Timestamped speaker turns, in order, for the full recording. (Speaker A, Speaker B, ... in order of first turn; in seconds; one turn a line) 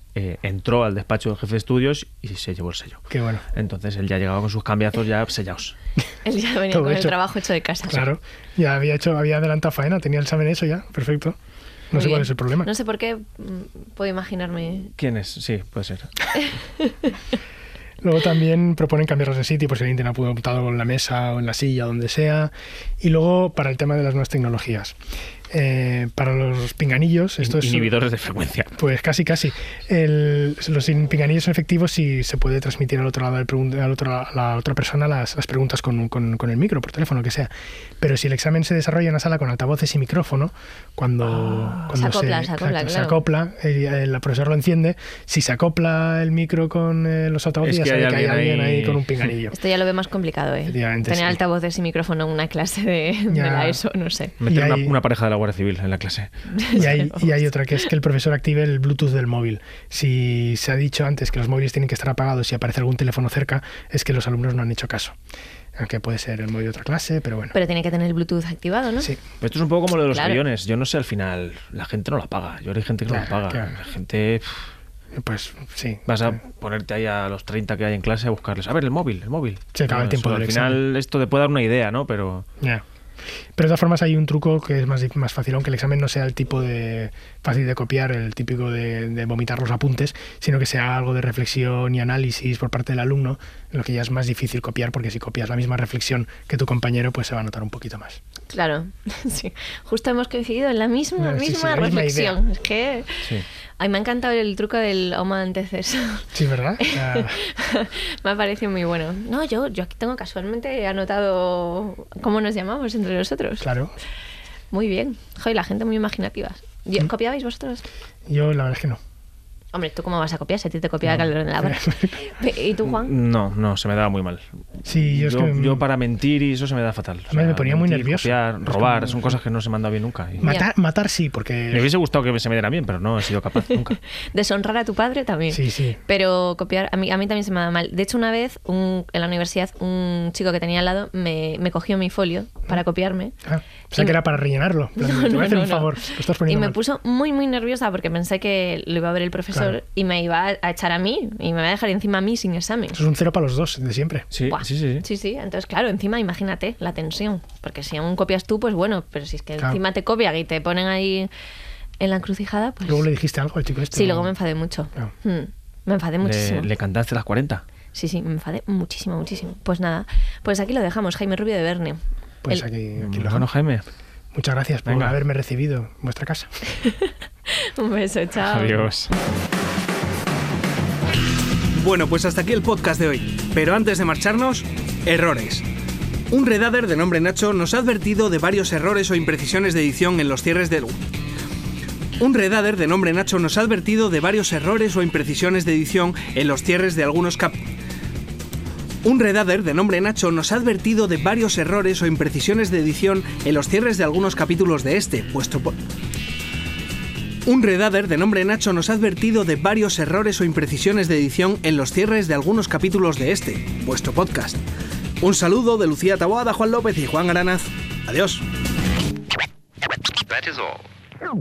Speaker A: 0.1-3.0
Speaker B: 3.1-3.4
Speaker A: 3.5-5.7
Speaker C: 6.2-8.1
Speaker B: 6.7-7.2
Speaker B: 7.8-11.4
Speaker B: 11.9-12.7
Speaker C: 11.9-14.9
Speaker A: 15.0-16.1
Speaker C: 16.8-17.1
Speaker B: 18.0-24.9
Speaker B: 25.5-27.9
Speaker A: 27.4-28.8
Speaker B: 28.7-49.5
Speaker C: 41.9-43.2
Speaker A: 47.6-49.1
Speaker C: 49.5-54.4
Speaker B: 50.6-51.4
Speaker B: 53.3-53.8
Speaker A: 54.4-56.8
Speaker B: 54.4-55.0
Speaker C: 56.5-57.0
Speaker B: 56.7-65.1
Speaker B: 65.8-67.5
Speaker C: 67.5-69.1
Speaker A: 69.4-74.5
Speaker C: 70.1-70.4
Speaker B: 73.1-73.7
Speaker B: 75.1-76.1
Speaker A: 76.1-82.4
Speaker B: 79.7-80.8
Speaker B: 83.5-98.2
Speaker C: 98.5-113.7
Speaker B: 101.2-102.4
Speaker B: 106.3-107.4
Speaker B: 113.6-113.9
Speaker C: 114.7-117.8
Speaker B: 118.3-119.0
Speaker C: 119.7-123.1
Speaker B: 121.0-122.3
Speaker A: 122.8-130.5
Speaker B: 124.8-125.8
Speaker B: 127.3-129.4
Speaker B: 130.4-131.9
Speaker A: 131.7-134.0
Speaker C: 134.2-143.3
Speaker B: 135.5-136.0
Speaker B: 143.4-146.8
Speaker C: 145.0-153.0
Speaker B: 149.5-149.8
Speaker B: 152.9-154.3
Speaker A: 154.3-155.0
Speaker C: 154.5-161.3
Speaker C: 162.0-163.1
Speaker B: 162.8-164.3
Speaker C: 163.9-166.7
Speaker A: 166.2-167.6
Speaker C: 167.9-172.6
Speaker B: 172.4-173.5
Speaker A: 173.0-173.8
Speaker B: 174.3-176.5
Speaker A: 174.9-175.2
Speaker C: 176.8-178.8
Speaker A: 178.4-179.1
Speaker D: 181.7-185.6
Speaker D: 186.3-190.9
Speaker D: 192.2-197.6
Speaker D: 199.0-205.7
Speaker D: 207.4-214.6
Speaker D: 215.2-218.4